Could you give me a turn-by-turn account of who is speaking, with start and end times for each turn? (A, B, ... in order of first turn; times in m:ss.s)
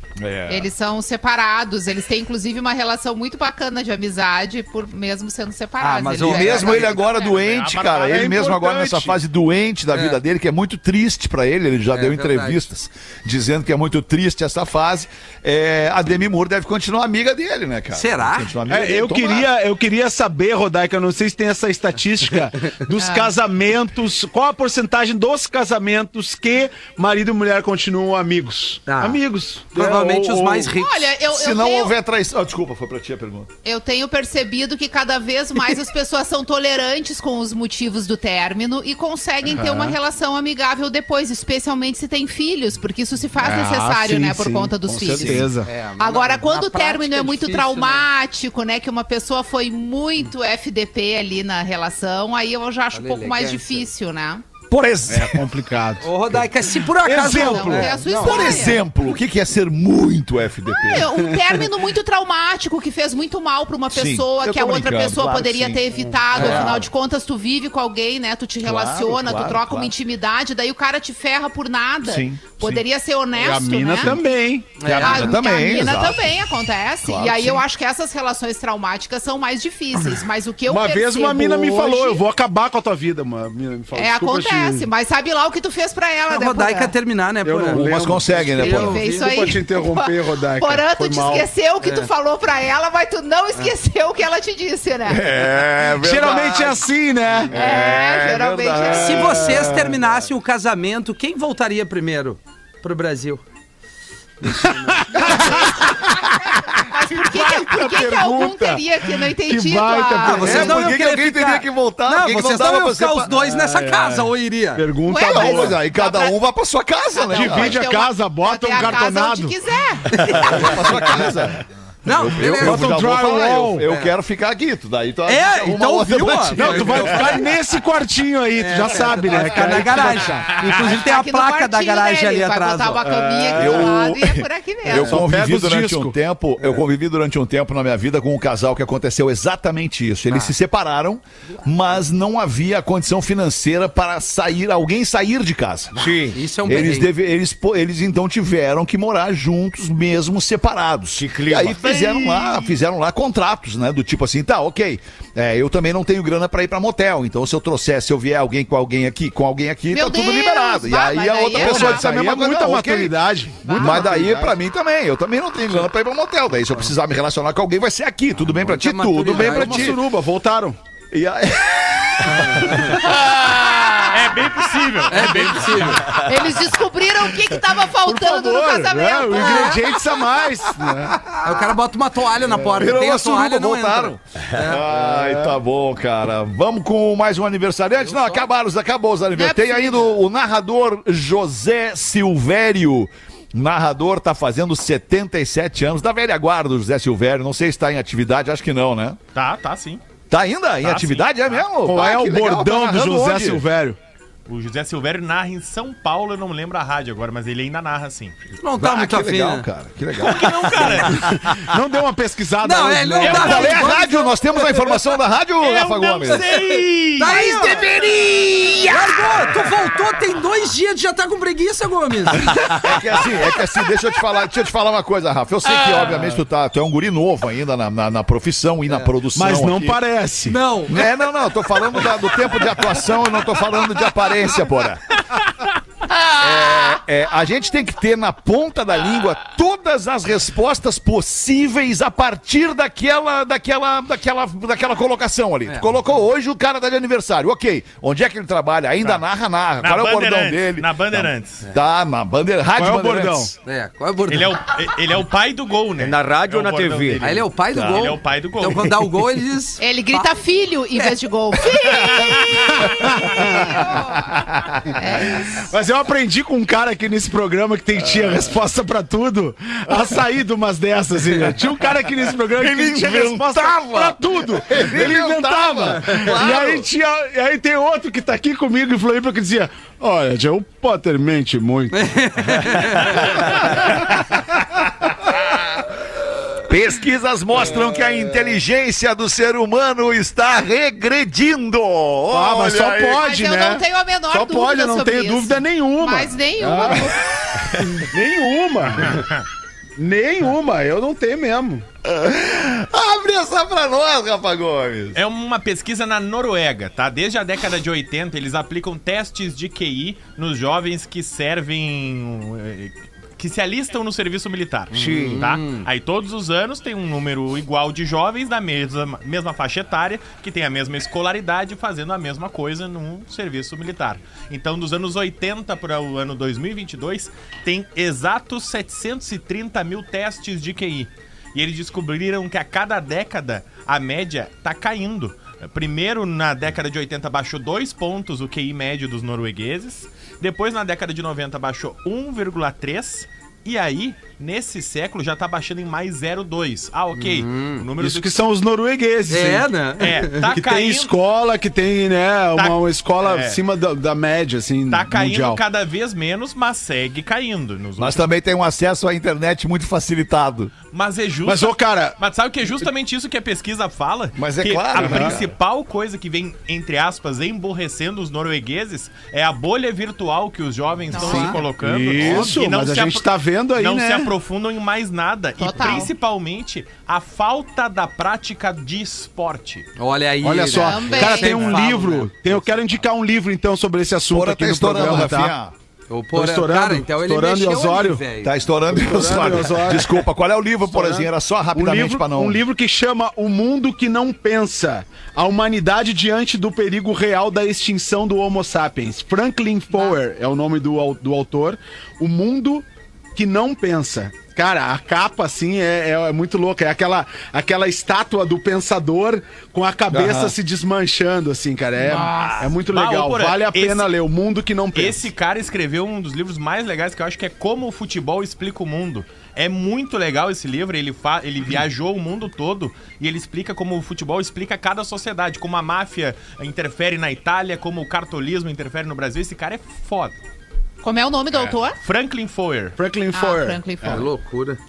0:00.2-0:00.7 A
0:00.5-0:07.4 B
0:05.8-0:07.1 C
0:06.2-0:19.5 A
0:07.3-0:08.4 D
0:07.9-0:09.2 E
0:09.9-0:10.2 C
0:11.9-0:12.6 C
0:17.9-0:18.5 C
0:18.7-0:30.7 E
0:23.0-0:23.3 B
0:28.9-0:31.2 C
0:30.7-0:31.9 B
0:31.3-0:33.5 A
0:33.6-0:54.4 B
0:39.5-0:40.0 E
0:43.4-0:45.7 E
0:45.1-0:45.5 A
0:45.6-0:48.1 C
0:52.9-0:53.9 C
0:54.7-0:55.4 A
0:55.1-0:58.0 E
0:56.0-0:58.8 C
0:57.3-0:58.8 B
0:58.2-1:01.2 A
1:00.7-1:14.2 B
1:03.9-1:06.8 A
1:06.3-1:06.8 C
1:08.6-1:09.9 A
1:12.0-1:12.8 A
1:13.4-1:15.3 E
1:14.8-1:15.4 C
1:15.0-1:22.2 B
1:15.0-1:16.4 A
1:17.0-1:17.6 A
1:20.7-1:24.9 E
1:24.0-1:27.0 B
1:26.3-1:29.3 C
1:27.4-1:31.5 E
1:27.7-1:29.0 A
1:28.6-1:35.2 B
1:31.8-1:32.1 C
1:35.1-1:36.8 A
1:35.9-1:37.6 E
1:37.5-1:39.7 A
1:37.5-1:39.4 B
1:38.8-1:40.0 E
1:38.9-1:43.4 C
1:44.4-1:48.8 E
1:46.8-1:50.8 B
1:49.4-1:50.9 E
1:50.2-1:54.9 C
1:50.4-1:53.3 A
1:53.3-1:55.8 E
1:55.0-1:56.4 B
1:55.1-1:57.8 A
1:57.1-2:00.9 B
1:57.3-1:59.6 E
2:00.1-2:00.9 C
2:00.3-2:07.5 A
2:02.0-2:03.0 C
2:02.4-2:03.9 E
2:03.8-2:04.1 C
2:05.3-2:07.5 C
2:06.5-2:10.6 E
2:08.6-2:13.0 C
2:10.6-2:15.2 B
2:13.0-2:14.0 E
2:13.6-2:26.0 A
2:14.9-2:16.2 E
2:26.0-2:26.4 F
2:26.3-2:27.1 C
2:26.6-2:50.0 A
2:31.1-2:31.8 F
2:31.8-2:32.7 D
2:39.9-2:42.1 B
2:41.6-2:44.5 E
2:43.6-2:44.2 B
2:48.6-2:50.0 C
2:49.3-2:50.8 E
2:51.1-2:54.6 A
2:52.3-2:52.8 E
2:54.1-2:56.1 D
2:55.1-2:56.2 C
2:56.0-2:56.4 A
2:56.1-2:59.8 B
2:58.0-3:01.4 E
2:59.3-2:59.9 C
3:00.8-3:01.4 A
3:01.4-3:04.8 C
3:02.6-3:19.2 A
3:04.9-3:05.6 E
3:08.1-3:08.4 C
3:09.3-3:10.1 B
3:19.4-3:20.0 D
3:20.3-3:23.6 A
3:20.8-3:21.6 D
3:21.8-3:24.0 E
3:24.5-3:28.4 D
3:28.6-3:29.7 C
3:28.8-3:31.4 A
3:30.1-3:31.4 D
3:31.4-3:33.8 E
3:32.6-3:34.5 C
3:33.2-3:33.8 D
3:33.2-3:36.5 A
3:35.6-3:37.4 D
3:36.3-3:37.9 C
3:37.2-3:39.7 A
3:38.8-3:42.7 C
3:42.7-3:50.0 A
3:49.3-3:50.6 E
3:50.5-3:51.0 C
3:50.9-3:55.1 A
3:56.3-4:13.5 A
4:09.8-4:11.6 D
4:12.8-4:13.6 E
4:13.6-4:14.6 C
4:14.3-4:19.0 D
4:16.0-4:17.4 F
4:17.2-4:20.3 C
4:17.8-4:18.0 A
4:19.8-4:24.2 B
4:22.7-4:23.8 E
4:24.3-4:24.8 A
4:25.0-4:25.6 B
4:25.5-4:42.0 E
4:29.9-4:30.2 A
4:32.6-4:36.9 A
4:41.9-4:43.3 C
4:43.1-4:44.0 A
4:46.7-4:53.3 A
4:52.3-4:57.2 E
4:53.2-4:57.2 B
4:57.5-4:58.1 A
4:58.0-4:59.3 E
4:59.0-4:59.4 D
5:00.0-5:01.8 E
5:02.0-5:05.2 A
5:05.2-5:48.4 D
5:14.9-5:15.6 F
5:15.1-5:15.8 C
5:47.2-5:47.8 C
5:48.0-5:49.7 E
5:49.3-5:50.5 C
5:50.0-5:51.2 D
5:50.5-5:55.6 E
5:52.6-5:53.6 D
5:54.9-5:58.3 D
5:58.0-6:00.7 A
6:00.9-6:19.9 D
6:01.4-6:02.2 E
6:04.4-6:05.5 A
6:05.0-6:05.4 E
6:11.1-6:11.6 B
6:11.2-6:14.3 E
6:12.2-6:12.5 A
6:15.6-6:16.1 B
6:20.0-6:22.7 C
6:20.4-6:25.5 E
6:20.7-6:21.6 B
6:24.3-6:25.7 A
6:26.1-6:28.6 C
6:26.3-6:28.2 E
6:28.4-6:32.6 A
6:28.9-6:30.2 E
6:30.9-6:55.3 E
6:50.1-6:50.6 A
6:52.1-6:52.7 A
6:52.1-6:52.5 B
6:52.9-6:54.1 D
6:54.9-7:10.4 D
7:11.0-7:12.0 B
7:12.0-7:13.0 D
7:13.0-7:14.3 E
7:13.3-7:14.3 B
7:14.0-7:14.8 C